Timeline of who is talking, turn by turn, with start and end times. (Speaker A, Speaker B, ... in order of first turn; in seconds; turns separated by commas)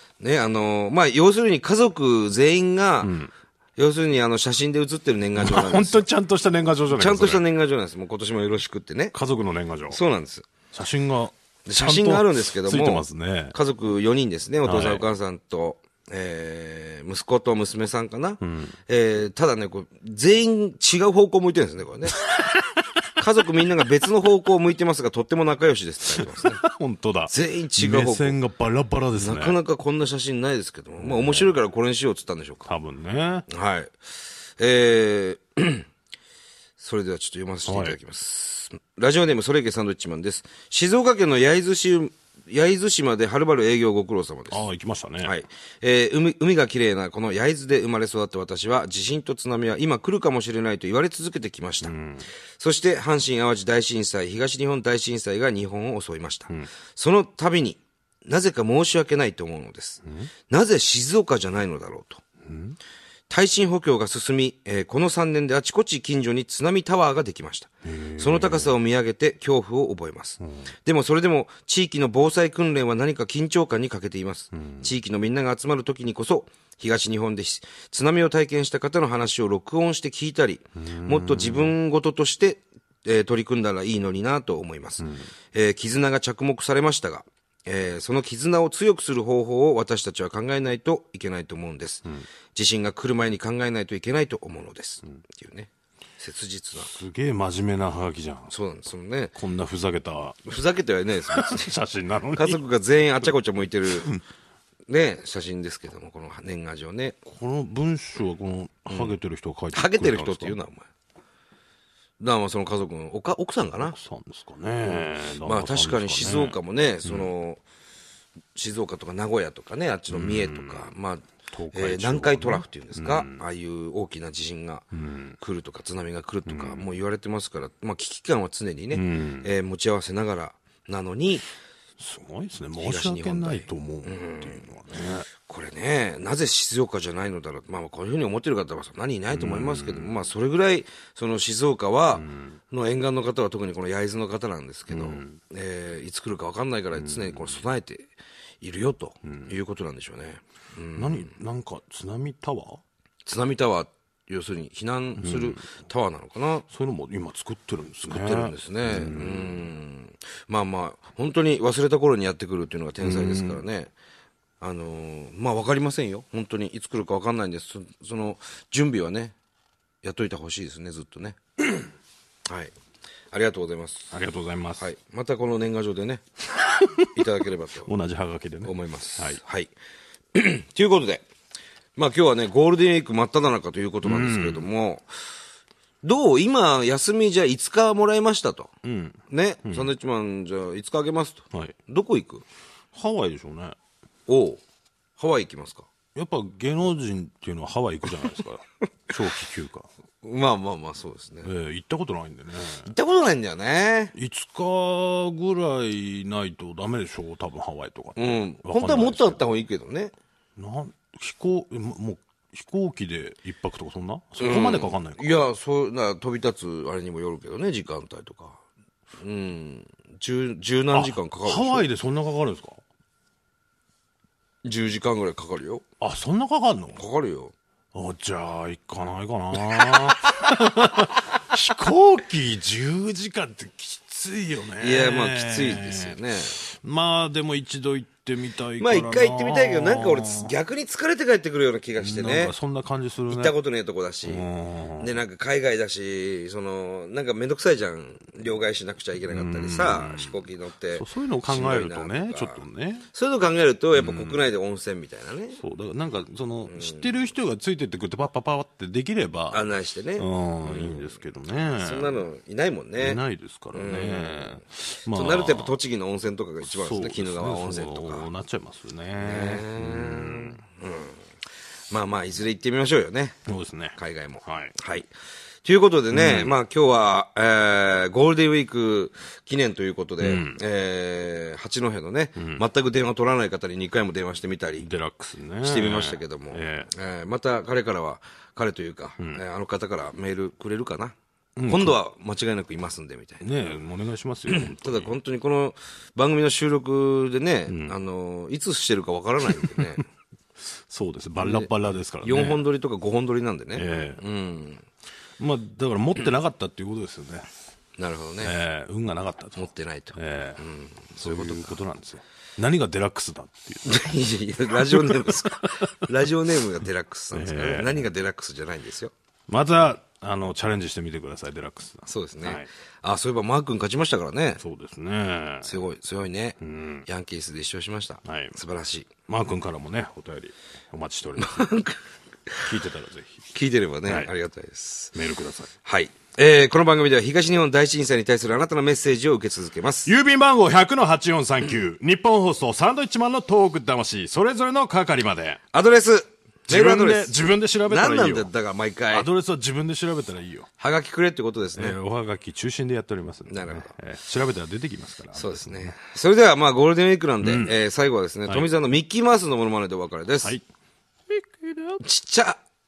Speaker A: 0.2-3.1, Speaker B: 3.0-3.3, Speaker A: 3.8-6.1, Speaker B: 5.4-7.5, Speaker A: 6.9-9.1, Speaker B: 9.1-10.0, Speaker A: 9.9-10.5, Speaker B: 10.7-13.6, Speaker A: 11.7-22.2, Speaker B: 14.6-15.1, Speaker B: 18.4-18.8, Speaker A: 23.2-26.6, Speaker B: 26.2-29.6, Speaker A: 27.3-28.4, Speaker A: 29.1-32.7, Speaker B: 31.0-31.6, Speaker B: 32.6-33.5, Speaker A: 33.5-33.9, Speaker A: 34.6-35.9, Speaker A: 36.8-44.6, Speaker B: 37.6-38.0, Speaker B: 44.5-45.3, Speaker A: 45.2-51.9, Speaker B: 51.8-52.3, Speaker A: 52.6-62.2, Speaker B: 60.0-60.3, Speaker B: 62.4-62.8, Speaker A: 63.3-96.9, Speaker B: 67.8-68.7, Speaker B: 70.4-70.7, Speaker B: 74.5-74.9, Speaker B: 80.8-81.8, Speaker B: 85.0-85.3, Speaker B: 96.9-98.5, Speaker A: 98.5-99.3, Speaker B: 99.3-100.4, Speaker A: 100.5-101.7, Speaker B: 101.3-102.6, Speaker A: 102.3-104.1, Speaker A: 104.9-107.2, Speaker B: 107.2-110.6, Speaker A: 108.9-109.2, Speaker A: 109.7-110.9, Speaker A: 112.2-114.0, Speaker B: 113.8-117.3, Speaker A: 114.9-117.6, Speaker A: 118.5-124.9, Speaker B: 120.1-120.9, Speaker B: 121.5-123.4, Speaker B: 124.9-125.4, Speaker A: 125.4-131.4, Speaker B: 126.5-126.9, Speaker B: 128.9-129.5, Speaker B: 132.0-135.3, Speaker A: 132.8-134.7, Speaker A: 135.3-151.3, Speaker B: 139.3-140.2, Speaker B: 142.1-142.6, Speaker B: 144.9-145.4, Speaker B: 146.9-147.6, Speaker B: 149.2-149.6, Speaker B: 151.0-152.8, Speaker A: 153.2-156.7, Speaker B: 155.2-155.6, Speaker B: 156.7-159.6, Speaker A: 158.1-163.9, Speaker B: 163.0-163.6, Speaker A: 164.6-169.3, Speaker A: 170.0-171.8, Speaker A: 172.5-172.7, Speaker A: 173.3-174.1, Speaker B: 174.1-174.8, Speaker A: 174.8-176.2, Speaker B: 176.8-177.1, Speaker A: 177.1-177.9, Speaker B: 177.9-179.4, Speaker A: 178.6-179.7, Speaker A: 180.3-181.2, Speaker A: 182.0-185.1, Speaker B: 184.0-184.7, Speaker A: 186.0-188.7, Speaker B: 188.8-189.9, Speaker A: 189.3-192.4, Speaker B: 192.9-193.8, Speaker A: 194.3-194.6, Speaker A: 195.2-195.9, Speaker B: 196.1-199.9, Speaker A: 200.2-201.5, Speaker B: 201.4-202.9, Speaker A: 202.9-204.1, Speaker B: 204.1-209.4, Speaker A: 208.2-210.1, Speaker B: 210.6-215.4, Speaker A: 214.4-218.6, Speaker A: 219.2-221.9, Speaker B: 220.9-222.8, Speaker A: 224.6-225.8, Speaker B: 226.0-227.0, Speaker A: 226.9-227.5, Speaker B: 227.9-240.5, Speaker A: 234.8-236.6, Speaker A: 238.8-242.6, Speaker B: 242.0-243.6, Speaker A: 243.3-244.5, Speaker B: 244.2-245.1, Speaker A: 245.0-255.6, Speaker B: 249.3-253.1, Speaker B: 253.9-254.4, Speaker B: 255.6-262.2, Speaker A: 256.7-257.1, Speaker A: 259.5-261.2, Speaker A: 261.8-263.2, Speaker B: 263.0-265.8, Speaker A: 263.7-264.6, Speaker A: 265.1-268.3, Speaker B: 266.7-270.6, Speaker A: 269.2-271.2, Speaker A: 271.9-273.4, Speaker B: 273.5-274.8, Speaker A: 274.0-275.1, Speaker A: 275.6-284.9, Speaker B: 276.1-276.6, Speaker B: 280.2-280.6, Speaker B: 282.4-282.6, Speaker B: 284.8-286.9, Speaker A: 285.6-291.1, Speaker B: 291.6-292.0, Speaker A: 291.7-293.5, Speaker B: 293.4-295.1, Speaker A: 294.5-300.1, Speaker B: 297.7-297.9, Speaker B: 299.5-299.8, Speaker B: 300.9-302.6, Speaker A: 301.4-301.7, Speaker A: 302.2-304.9, Speaker B: 303.7-304.2, Speaker B: 305.4-307.5, Speaker A: 308.0-308.6, Speaker B: 308.4-310.6, Speaker A: 309.6-311.8, Speaker B: 311.2-314.1, Speaker A: 313.9-319.1, Speaker B: 314.9-315.9, Speaker B: 317.3-318.1, Speaker B: 319.5-322.7, Speaker A: 322.1-324.6, Speaker B: 324.6-325.8, Speaker A: 325.6-329.1, Speaker B: 326.6-327.1, Speaker B: 328.2-328.6, Speaker B: 329.3-331.7, Speaker A: 331.4-332.7, Speaker B: 332.6-333.5, Speaker A: 333.5-335.1, Speaker B: 334.1-334.3, Speaker B: 335.1-335.7, Speaker A: 335.8-340.1, Speaker B: 340.1-345.6, Speaker A: 345.7-349.3, Speaker B: 346.7-348.5, Speaker B: 349.1-350.7, Speaker A: 350.8-352.0, Speaker B: 351.8-356.0, Speaker A: 353.5-353.9, Speaker A: 355.3-360.6, Speaker B: 357.4-357.8, Speaker B: 358.5-358.8, Speaker B: 361.3-362.0, Speaker A: 362.0-362.6